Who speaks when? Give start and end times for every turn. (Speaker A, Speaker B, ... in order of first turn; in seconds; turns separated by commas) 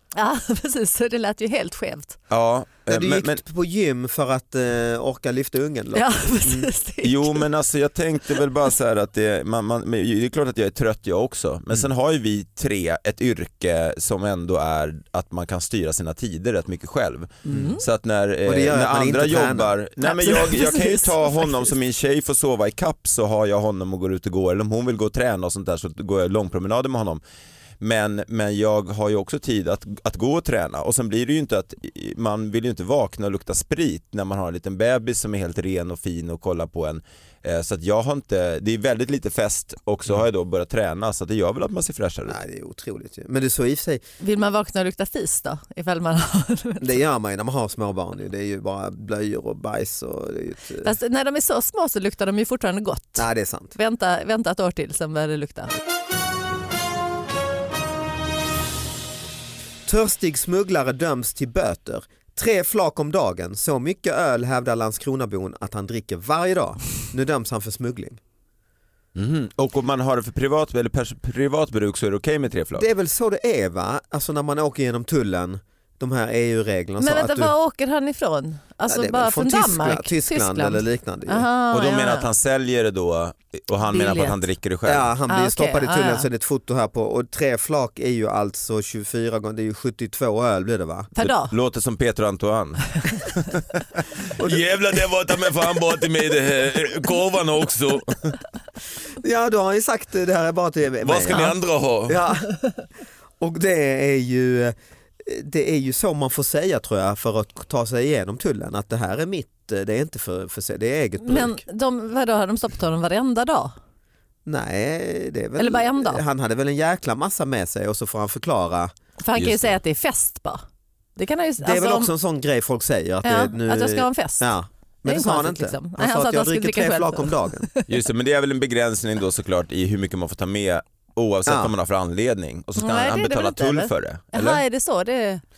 Speaker A: 0.1-2.2, Speaker B: 2.3-3.4, Speaker C: 2.9-6.7, Speaker A: 5.9-7.5, Speaker B: 7.0-27.2, Speaker A: 17.5-17.8, Speaker C: 17.5-17.8, Speaker C: 18.4-19.7, Speaker A: 20.0-21.5, Speaker B: 27.8-42.4, Speaker C: 42.3-44.0, Speaker A: 44.2-47.0, Speaker C: 46.8-50.9, Speaker A: 50.8-55.7, Speaker C: 53.2-53.7, Speaker C: 59.8-68.2, Speaker B: 69.1-72.9, Speaker C: 72.8-77.5, Speaker A: 77.0-82.3, Speaker C: 78.8-81.5, Speaker B: 81.7-85.1, Speaker A: 83.9-84.4, Speaker C: 84.8-91.1, Speaker A: 85.3-86.2, Speaker A: 91.1-91.5, Speaker B: 91.2-98.4, Speaker C: 94.4-94.6, Speaker C: 99.2-102.8, Speaker B: 101.0-102.2, Speaker C: 103.4-111.6, Speaker A: 111.2-113.7, Speaker C: 114.4-118.9, Speaker A: 115.6-116.2, Speaker A: 119.2-120.6, Speaker B: 119.3-119.8, Speaker A: 121.2-122.1, Speaker C: 121.6-127.7, Speaker A: 123.2-124.5, Speaker A: 125.0-128.0, Speaker B: 127.9-134.6, Speaker C: 131.4-131.7, Speaker A: 132.8-135.4